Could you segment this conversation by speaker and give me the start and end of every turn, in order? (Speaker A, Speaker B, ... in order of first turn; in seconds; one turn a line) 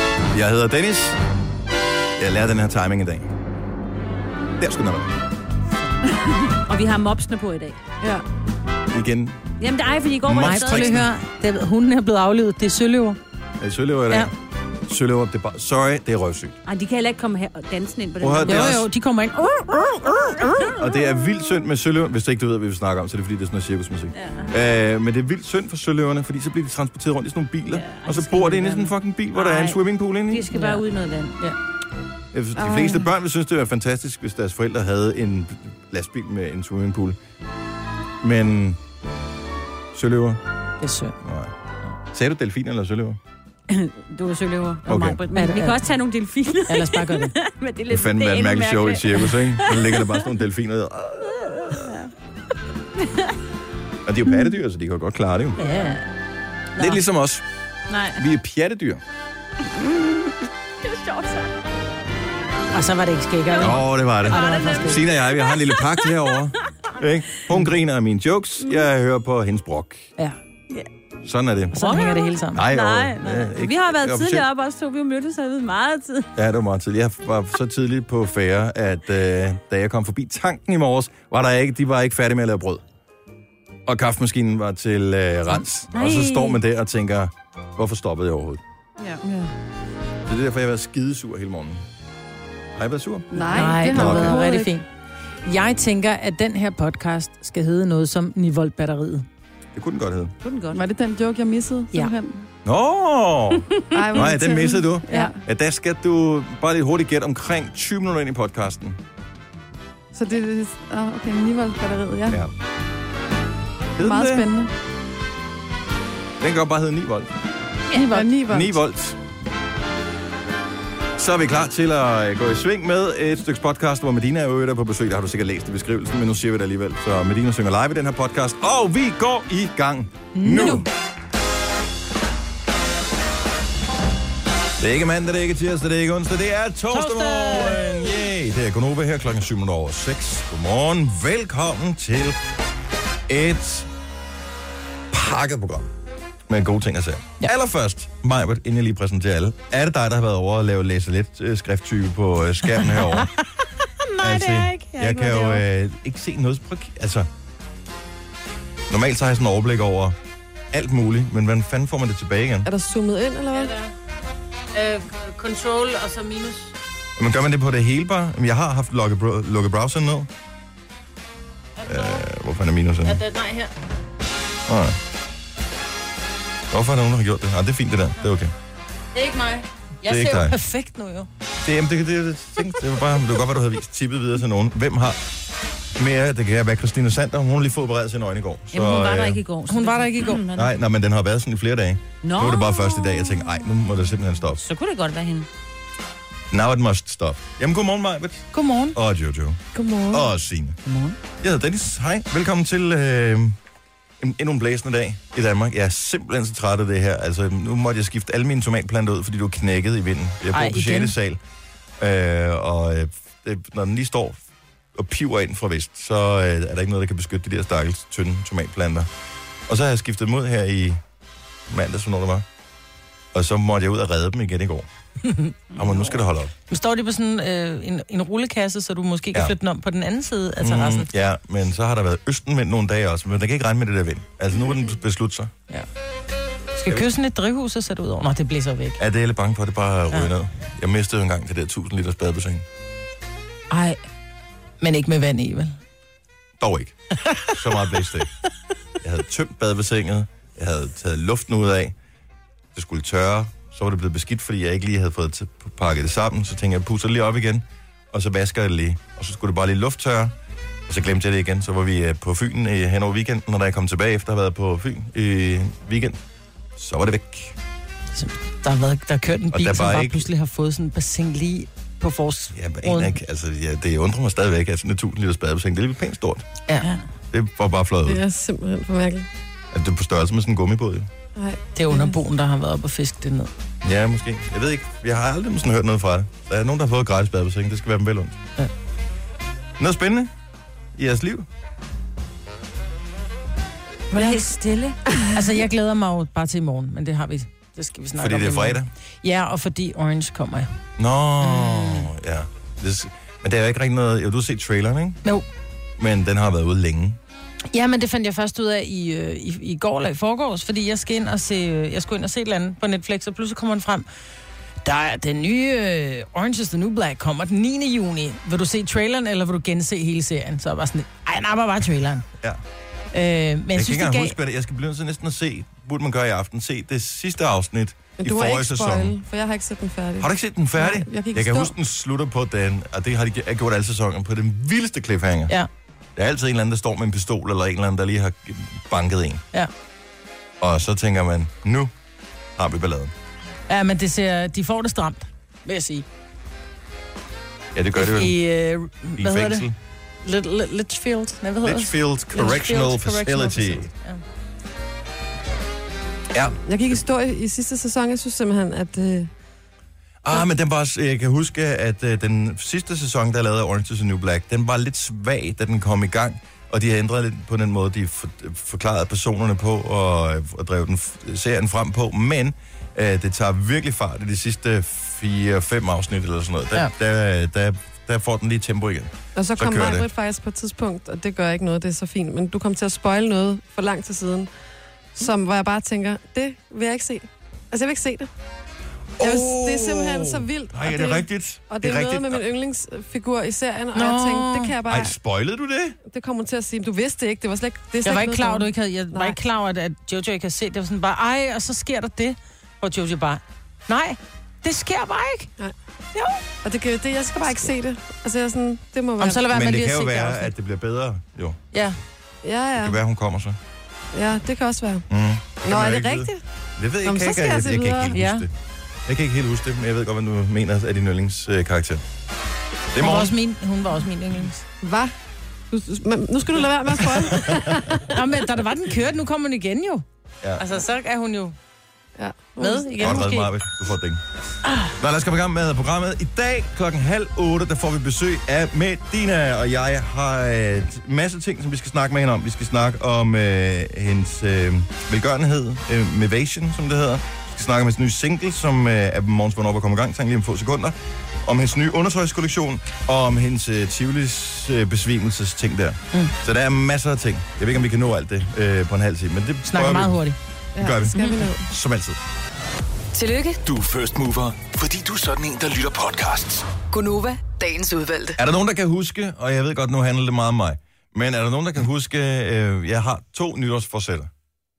Speaker A: 0.3-1.2
Speaker A: 2.2-3.3
Speaker A: 4.6-5.1
Speaker B: 6.5-7.8
Speaker A: 8.9-9.5
Speaker B: 9.6-11.1
Speaker A: 10.2-11.1
Speaker C: 10.4-13.2
Speaker A: 13.6-14.3
Speaker A: 14.9-16.6
Speaker B: 16.7-18.8
Speaker A: 18.2-18.9
Speaker C: 18.5-20.7
Speaker A: 20.8-30.5
Speaker B: 24.2-24.5
Speaker B: 27.7-31.4
Speaker C: 30.5-30.8
Speaker A: 32.3-37.2
Speaker A: 38.2-38.8
Speaker A: 39.9-40.4
Speaker C: 40.8-41.2
Speaker A: 41.2-41.5
Speaker A: 42.1-43.2
Speaker B: 43.7-50.2
Speaker C: 44.5-45.8
Speaker A: 44.9-45.2
Speaker C: 46.7-47.3
Speaker A: 47.9-52.0
Speaker B: 51.7-52.1
Speaker A: 54.0-55.6
Speaker B: 55.6-56.1
Speaker C: 55.6-56.0
Speaker B: 56.8-57.0
Speaker A: 56.8-57.5
Speaker B: 57.9-58.2
Speaker A: 58.1-59.0
Speaker B: 59.8-60.3
Speaker B: 60.8-61.5
Speaker C: 62.7-65.0
Speaker B: 63.5-66.3
Speaker A: 63.6-70.1
Speaker A: 71.2-71.8
Speaker C: 71.7-72.7
Speaker B: 71.7-76.3
Speaker A: 72.5-74.5
Speaker A: 76.3-82.8
Speaker A: 83.9-88.6
Speaker B: 85.9-86.6
Speaker A: 90.3-91.8
Speaker A: 92.8-93.3
Speaker D: 93.3-94.3
Speaker B: 93.5-94.7
Speaker C: 93.5-94.9
Speaker A: 93.9-94.4
Speaker C: 95.5-99.3
Speaker A: 99.8-100.3
Speaker B: 100.4-100.8
Speaker D: 100.7-102.5
Speaker A: 102.6-109.0
Speaker D: 103.9-105.4
Speaker D: 110.1-112.4
Speaker A: 112.3-112.5
Speaker A: 114.0-114.5
Speaker D: 114.0-114.7
Speaker A: 116.4-117.4
Speaker C: 118.0-118.2
Speaker D: 118.0-118.8
Speaker A: 118.5-119.2
Speaker A: 121.2-130.9
Speaker C: 130.3-130.9
Speaker A: 134.8-142.4
Speaker C: 136.9-138.2
Speaker A: 143.3-143.9
Speaker A: 145.1-145.9
Speaker A: 146.5-153.3
Speaker B: 154.2-155.6
Speaker A: 154.2-157.3
Speaker A: 158.9-160.2
Speaker A: 160.7-162.7
Speaker D: 162.7-163.8
Speaker C: 163.6-163.9
Speaker C: 164.7-166.7
Speaker A: 167.2-170.3
Speaker C: 171.8-172.2
Speaker A: 171.9-173.2
Speaker C: 173.1-173.7
Speaker A: 174.7-175.0
Speaker A: 176.7-178.5
Speaker C: 179.2-181.3
Speaker A: 180.0-180.6
Speaker A: 181.6-185.2
Speaker A: 186.0-189.4
Speaker B: 188.7-190.7
Speaker C: 189.7-190.4
Speaker A: 190.5-194.6
Speaker B: 192.2-193.7
Speaker B: 194.6-195.5
Speaker A: 196.5-200.8
Speaker B: 198.5-199.0
Speaker C: 199.8-200.2
Speaker B: 200.8-201.2
Speaker A: 201.4-203.6
Speaker A: 204.2-211.4
Speaker C: 210.5-211.2
Speaker A: 212.0-214.4
Speaker A: 214.9-219.1
Speaker A: 219.7-221.0
Speaker A: 221.7-222.5
Speaker A: 223.3-224.9
Speaker C: 225.3-225.5
Speaker A: 225.7-226.5
Speaker C: 226.7-231.1
Speaker A: 230.6-235.5
Speaker C: 236.8-239.0
Speaker A: 239.0-242.7
Speaker C: 243.7-244.0
Speaker C: 244.8-245.8
Speaker A: 246.6-248.3
Speaker A: 249.0-251.9
Speaker A: 252.7-260.3
Speaker A: 260.9-266.2
Speaker A: 266.8-267.6
Speaker C: 268.1-273.2
Speaker A: 269.5-270.3
Speaker A: 272.5-276.5
Speaker C: 276.7-276.9
Speaker A: 277.3-278.2
Speaker D: 278.1-279.3
Speaker A: 279.7-281.1
Speaker D: 281.4-282.2
Speaker C: 281.8-283.5
Speaker A: 283.8-288.4
Speaker A: 289.8-290.3
Speaker A: 291.0-291.5
Speaker C: 294.1-294.5
Speaker B: 294.1-295.2
Speaker C: 295.1-300.7
Speaker A: 298.2-298.9
Speaker A: 301.0-305.2
Speaker C: 301.4-302.1
Speaker A: 306.0-307.2
Speaker C: 307.7-314.1
Speaker C: 314.9-322.3
Speaker C: 323.1-324.4
Speaker A: 323.8-329.2
Speaker D: 328.2-331.7
Speaker A: 330.2-335.6
Speaker A: 336.2-339.4
Speaker A: 340.6-341.9
Speaker A: 342.6-343.1
Speaker C: 343.7-346.1
Speaker A: 347.7-348.4
Speaker C: 347.9-349.7
Speaker A: 349.2-349.8
Speaker C: 350.2-354.2
Speaker A: 351.6-353.9
Speaker A: 356.3-357.0
Speaker D: 356.7-359.3
Speaker A: 360.2-380.1
Speaker D: 379.4-384.5
Speaker D: 385.2-388.3
Speaker A: 389.2-392.4
Speaker D: 389.2-395.2
Speaker C: 393.9-394.7
Speaker A: 394.9-396.0
Speaker D: 396.1-399.4
Speaker C: 398.0-405.5
Speaker D: 406.6-409.5
Speaker C: 409.2-410.5
Speaker A: 409.5-411.6
Speaker C: 411.7-412.0
Speaker D: 412.4-413.0
Speaker A: 412.8-413.6
Speaker D: 414.1-415.1
Speaker A: 415.1-418.5
Speaker D: 415.6-416.4
Speaker D: 417.0-418.2
Speaker C: 418.1-418.5
Speaker A: 419.1-422.1
Speaker A: 422.9-423.4
Speaker C: 423.0-424.6
Speaker D: 424.8-425.1
Speaker D: 425.7-428.1
Speaker A: 427.1-427.8
Speaker C: 428.1-430.1
Speaker C: 430.6-431.6
Speaker D: 432.2-433.2
Speaker B: 432.6-433.5
Speaker A: 433.0-434.2
Speaker A: 435.0-460.2
Speaker C: 459.6-460.4
Speaker D: 460.8-461.7
Speaker A: 460.8-462.2
Speaker E: 463.1-463.6
Speaker F: 463.6-466.7
Speaker E: 466.9-468.4
Speaker A: 468.4-474.3